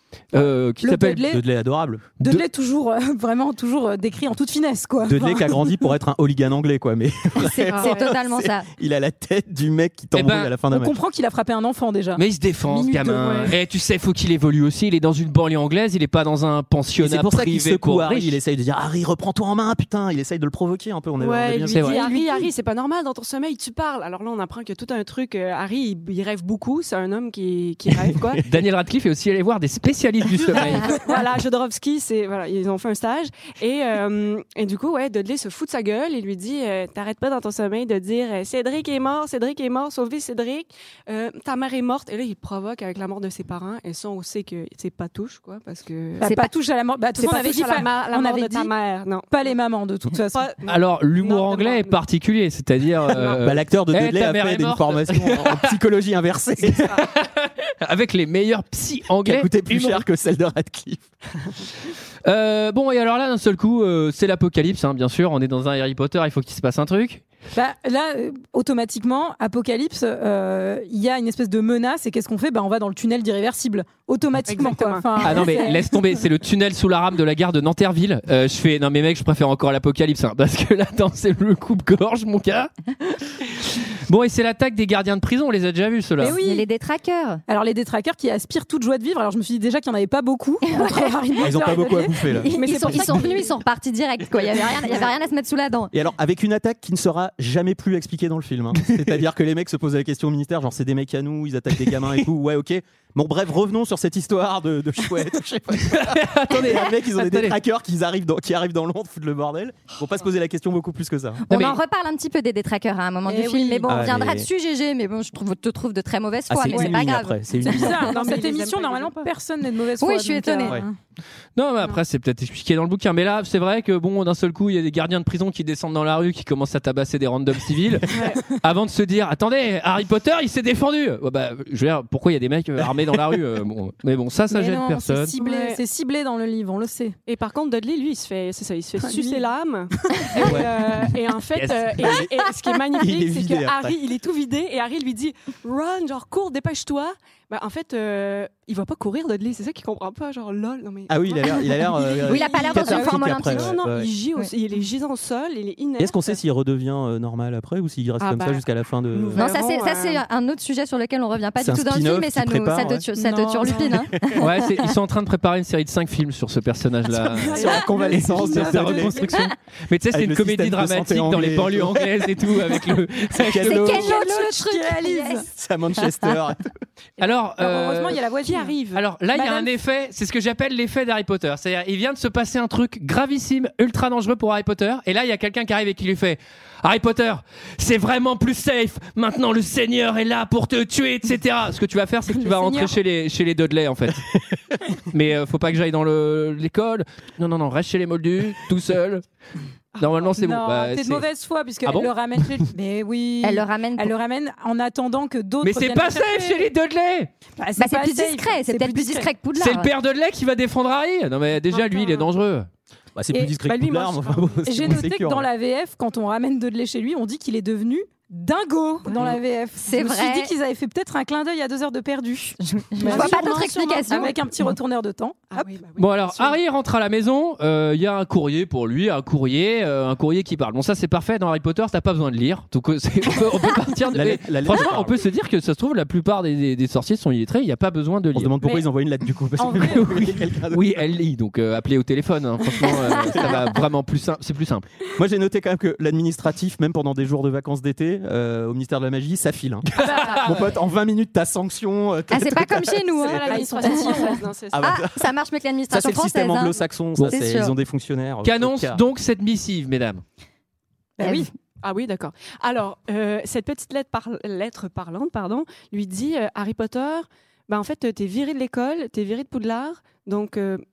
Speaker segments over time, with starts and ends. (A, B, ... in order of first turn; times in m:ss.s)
0:00.3-0:01.2 A
0:00.8-0:01.4 B
0:01.2-0:02.1 C
0:02.2-0:02.4 A
0:02.2-0:05.8 B
0:05.0-0:11.0 C
0:07.4-0:08.7 D
0:07.7-0:08.1 E
0:10.2-0:10.5 A
0:10.7-0:13.5 B
0:12.2-0:18.4 A
0:13.2-0:13.5 E
0:17.0-0:22.0 C
0:21.2-0:28.4 E
0:21.7-0:22.0 A
0:21.9-0:22.5 B
0:28.4-0:30.9 A
0:30.4-0:46.3 E
0:46.2-0:46.5 D
0:46.2-0:48.7 B
0:47.2-0:49.5 E
0:49.3-0:50.4 B
0:50.3-0:52.0 E
0:50.7-0:55.7 A
0:53.2-0:57.0 C
0:57.0-1:00.0 A
0:59.2-1:01.1 C
1:02.2-1:07.2 A
1:07.6-1:15.9 B
1:14.5-1:15.4 E
1:15.2-1:22.7 A
1:23.5-1:26.4 A
1:26.2-1:26.7 B
1:26.4-1:27.4 D
1:27.5-1:33.5 B
1:30.6-1:31.1 D
1:31.4-1:33.0 C
1:32.3-1:35.9 D
1:32.6-1:33.5 E
1:35.9-1:51.4 C
1:42.0-1:42.2 A
1:45.8-1:47.6 A
1:51.5-1:57.4 D
1:51.5-1:51.8 A
1:53.2-1:54.1 B
1:53.9-1:54.5 C
1:56.5-1:58.1 C
1:56.7-1:57.1 B
1:57.6-2:01.0 B
1:57.7-1:59.3 E
2:00.0-2:00.8 D
2:01.6-2:15.4 A
2:08.1-2:08.4 E
2:14.5-2:17.2 B
2:15.4-2:15.8 E
2:17.3-2:36.4 E
2:19.0-2:19.4 B
2:20.4-2:20.7 C
2:21.6-2:22.2 A
2:23.0-2:24.0 C
2:31.1-2:34.1 C
2:32.2-2:33.8 D
2:36.0-2:39.5 C
2:38.2-2:40.2 E
2:39.4-2:44.1 D
2:41.6-2:43.1 C
2:43.2-2:44.1 B
2:43.8-2:44.4 C
2:44.4-2:53.8 A
2:47.1-2:49.3 C
2:47.5-2:49.1 E
2:50.1-2:52.5 C
2:53.3-2:54.2 C
2:53.5-2:55.4 D
2:53.8-2:55.4 B
2:55.4-2:56.7 C
2:57.2-2:58.2 A
2:57.6-2:58.8 B
2:58.4-2:59.0 E
2:58.9-3:14.3 A
2:59.3-2:59.7 B
3:12.3-3:13.0 B
3:15.1-3:19.2 A
3:20.0-3:20.2 E
3:20.0-3:21.3 A
3:20.3-3:26.6 B
3:21.8-3:22.6 A
3:23.4-3:24.2 D
3:25.6-3:27.3 A
3:27.6-3:29.3 B
3:27.8-3:29.9 D
3:29.6-3:32.7 A
3:31.7-3:32.3 E
3:33.2-3:35.5 C
3:33.6-3:35.0 E
3:34.7-3:45.7 B
3:39.8-3:40.5 D
3:42.6-3:44.5 D
3:43.0-3:44.3 E
3:45.5-3:46.6 E
3:46.0-3:58.6 A
3:54.1-3:55.2 C
3:58.3-4:01.1 C
3:59.6-4:00.1 B
3:59.7-4:04.9 A
4:05.2-4:13.5 C
4:09.9-4:10.6 A
4:12.3-4:17.8 D
4:13.2-4:15.0 E
4:13.5-4:14.4 B
4:14.7-4:15.3 C
4:15.9-4:19.0 C
4:18.4-4:20.2 A
4:21.2-4:21.5 B
4:21.2-4:21.5 D
4:21.8-4:30.8 E